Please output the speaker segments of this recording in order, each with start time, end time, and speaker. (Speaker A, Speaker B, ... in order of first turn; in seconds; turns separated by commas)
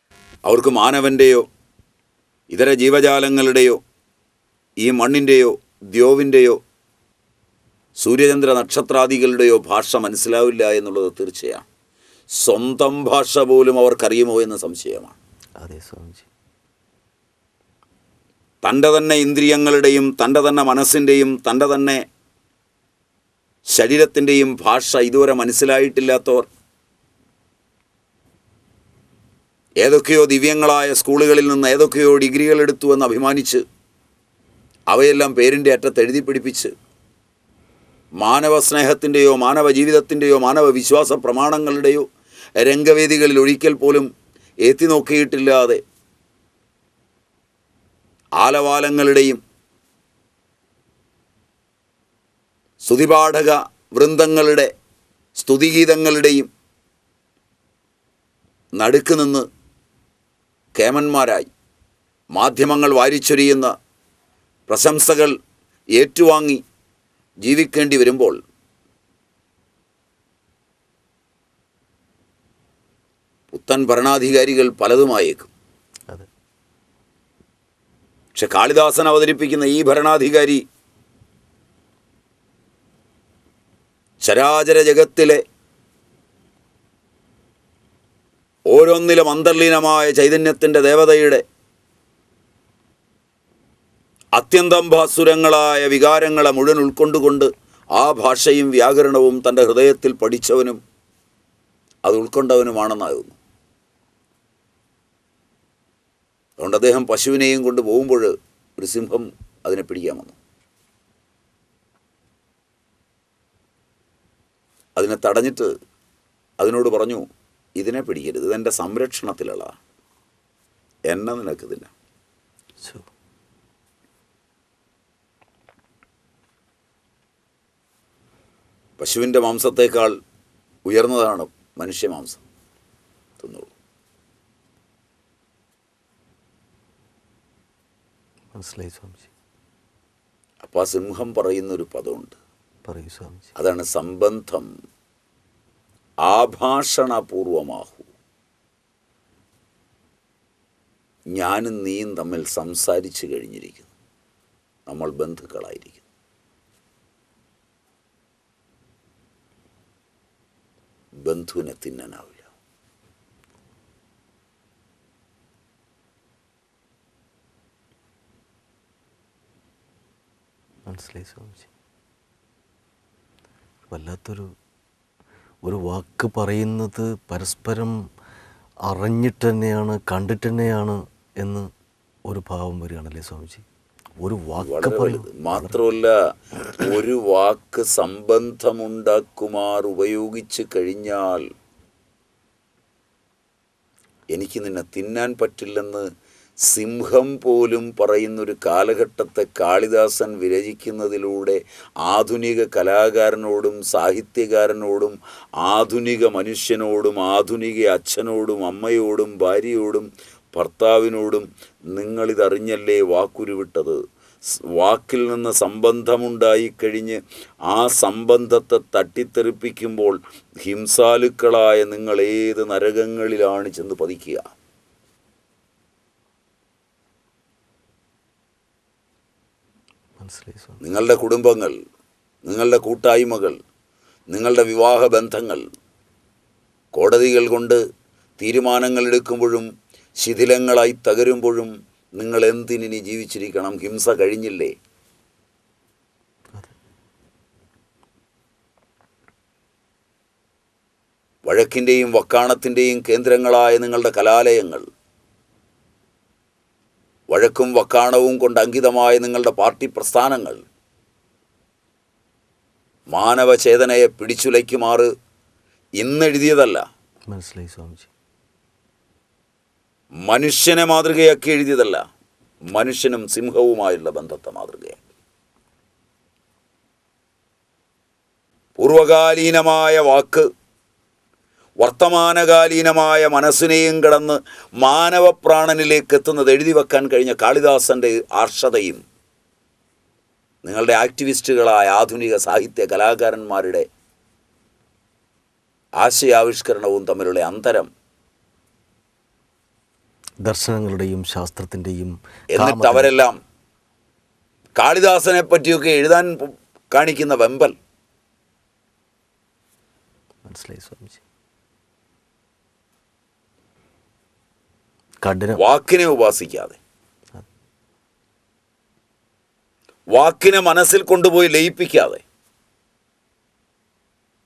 Speaker A: 0.5-1.4, Speaker A: 2.5-3.8, Speaker A: 4.8-6.6, Speaker A: 8.0-11.7, Speaker A: 12.4-15.2, Speaker B: 15.6-16.3, Speaker A: 18.6-22.0, Speaker A: 23.7-26.5, Speaker A: 29.8-33.6, Speaker A: 34.9-36.7, Speaker A: 38.2-42.0, Speaker A: 42.6-44.1, Speaker A: 44.6-45.8, Speaker A: 48.4-49.4, Speaker A: 52.8-54.7, Speaker A: 55.4-56.5, Speaker A: 58.8-59.5, Speaker A: 60.8-61.5, Speaker A: 62.3-63.7, Speaker A: 64.7-65.3, Speaker A: 66.0-66.6, Speaker A: 67.4-68.4, Speaker A: 73.5-75.5, Speaker A: 78.3-80.6, Speaker A: 84.2-85.4, Speaker A: 88.7-91.4, Speaker A: 94.3-100.8, Speaker A: 102.0-103.4, Speaker A: 106.6-110.4, Speaker A: 115.0-115.7, Speaker A: 116.6-117.2, Speaker A: 117.8-119.8, Speaker A: 121.1-121.9, Speaker A: 129.0-130.2, Speaker A: 130.8-132.4, Speaker A: 133.4-133.7, Speaker B: 138.5-139.3, Speaker A: 140.6-142.4, Speaker B: 142.8-143.5, Speaker A: 143.6-144.7, Speaker A: 146.2-148.1, Speaker A: 151.3-153.9, Speaker A: 154.9-156.0, Speaker A: 161.2-162.4, Speaker B: 170.9-171.7, Speaker B: 173.9-174.5, Speaker B: 175.6-178.0, Speaker B: 178.9-181.7, Speaker B: 182.2-183.7, Speaker B: 184.2-185.8, Speaker A: 184.6-186.1, Speaker A: 186.7-191.4, Speaker A: 194.3-196.1, Speaker A: 196.7-214.0, Speaker A: 214.7-224.5, Speaker B: 230.2-230.8, Speaker A: 230.8-231.8, Speaker A: 232.4-233.6, Speaker A: 234.3-235.6, Speaker A: 236.9-237.8, Speaker A: 238.4-239.7, Speaker A: 240.2-244.7, Speaker A: 251.4-254.8, Speaker A: 257.3-260.6, Speaker A: 263.1-265.1, Speaker A: 266.0-266.9, Speaker B: 267.3-268.1, Speaker A: 270.2-272.1, Speaker A: 272.7-275.0, Speaker A: 278.8-280.4, Speaker A: 281.8-289.0, Speaker A: 290.6-293.9, Speaker A: 296.0-297.9, Speaker B: 300.4-303.1, Speaker A: 302.5-303.3, Speaker A: 304.8-307.7, Speaker B: 310.4-311.2, Speaker B: 315.2-315.6, Speaker A: 315.6-316.8, Speaker A: 320.1-322.2